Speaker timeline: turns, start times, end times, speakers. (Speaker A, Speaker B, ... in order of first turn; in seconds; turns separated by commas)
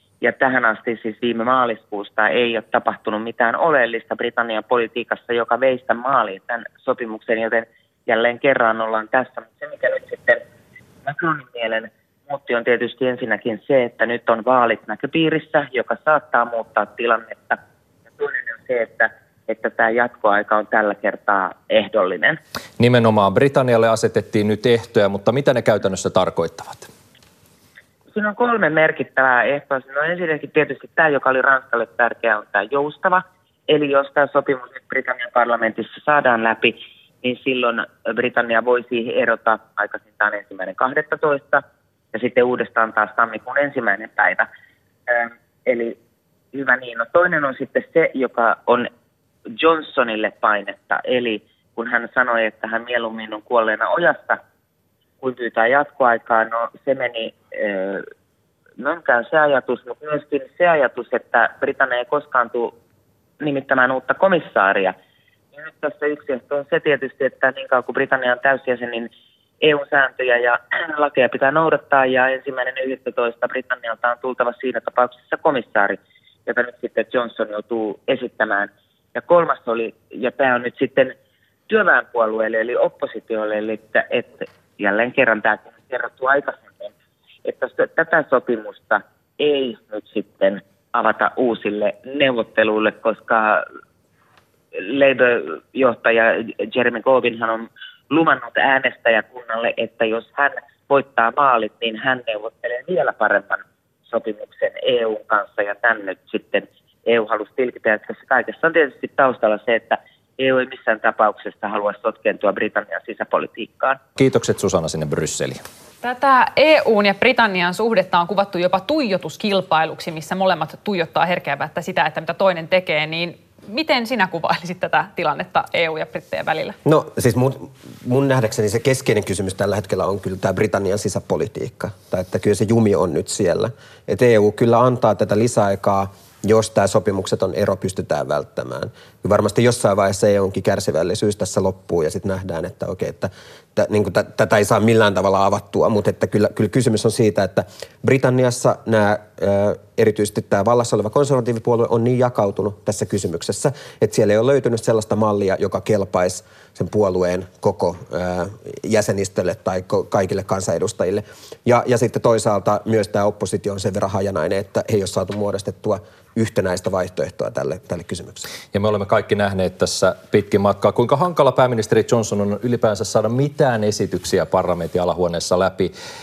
Speaker A: 0.2-10.4, Speaker A: 11.0-17.6, Speaker A: 18.2-22.4, Speaker B: 22.8-26.9, Speaker A: 28.1-41.6, Speaker A: 42.1-44.5, Speaker A: 45.1-46.0, Speaker A: 46.5-48.9, Speaker A: 49.6-54.4, Speaker A: 55.2-58.1, Speaker A: 58.8-62.8, Speaker A: 63.4-65.0, Speaker A: 65.6-69.1, Speaker A: 69.6-81.2, Speaker A: 81.7-86.9, Speaker A: 87.5-93.7, Speaker A: 94.8-114.0, Speaker B: 114.2-115.6, Speaker C: 116.0-126.8, Speaker D: 126.8-168.5, Speaker B: 168.7-175.9